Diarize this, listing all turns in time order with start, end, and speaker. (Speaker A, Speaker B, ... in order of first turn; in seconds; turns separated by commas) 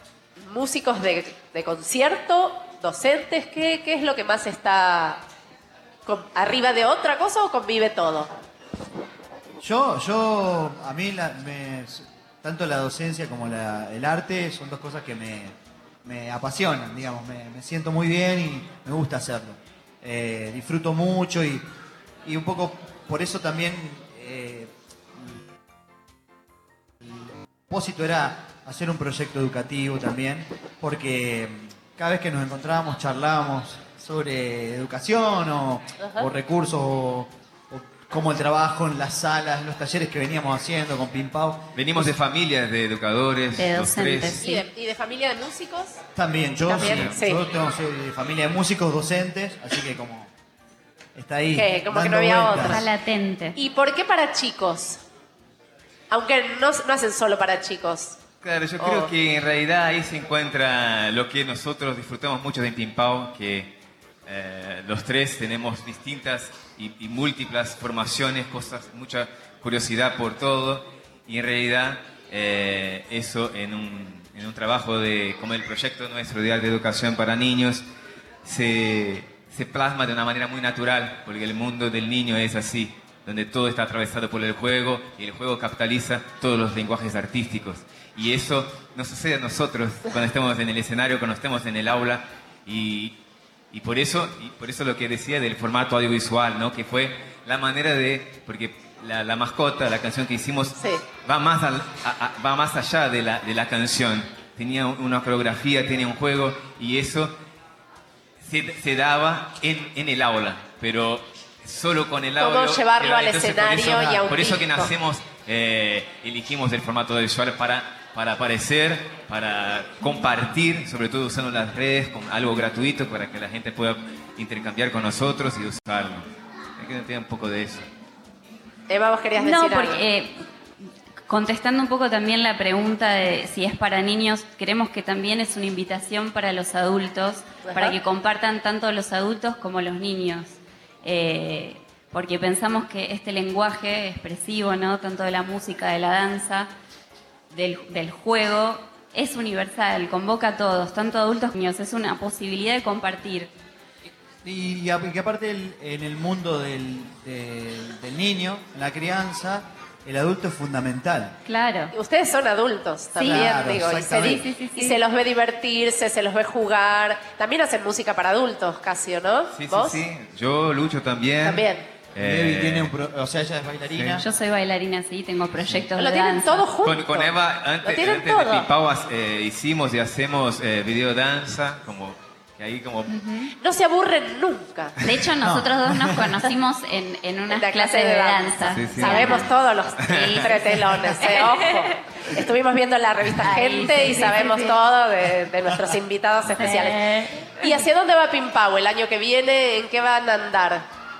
Speaker A: 0.4-5.2, Speaker A: 6.0-8.3, Speaker B: 9.6-21.6, Speaker B: 22.2-24.7, Speaker B: 27.0-42.1, Speaker A: 36.0-36.3, Speaker C: 41.7-44.4, Speaker D: 43.5-44.6, Speaker A: 44.4-46.0, Speaker B: 46.1-50.3, Speaker A: 46.6-47.4, Speaker C: 46.8-47.1, Speaker B: 51.1-52.8, Speaker A: 51.5-52.8, Speaker D: 52.6-53.6, Speaker A: 53.5-55.0, Speaker A: 56.1-58.2, Speaker C: 58.4-63.7, Speaker A: 58.8-59.1, Speaker C: 64.2-77.8, Speaker C: 78.4-93.2, Speaker C: 93.7-107.3, Speaker A: 100.8-101.0, Speaker C: 108.4-126.2, Speaker A: 112.4-114.9, Speaker C: 126.8-127.8, Speaker A: 128.9-130.0, Speaker D: 129.4-130.4, Speaker D: 131.3-146.7, Speaker A: 137.6-138.0, Speaker D: 147.5-153.5, Speaker B: 154.4-161.4, Speaker D: 161.4-161.9, Speaker A: 161.9-170.0, Speaker D: 163.2-163.6, Speaker B: 163.2-164.4, Speaker D: 164.2-165.0, Speaker C: 169.5-172.9, Speaker A: 171.4-171.9, Speaker B: 172.2-174.2, Speaker C: 173.9-174.2, Speaker D: 174.2-176.7, Speaker A: 176.0-177.3, Speaker C: 176.8-183.1, Speaker A: 177.8-178.7, Speaker D: 183.1-183.5, Speaker A: 183.6-185.0, Speaker D: 185.0-189.5, Speaker B: 185.4-186.3, Speaker A: 187.5-197.0, Speaker C: 188.7-189.4, Speaker C: 190.0-190.4, Speaker D: 190.1-192.0, Speaker D: 193.4-194.8, Speaker D: 196.6-197.8, Speaker A: 197.6-200.8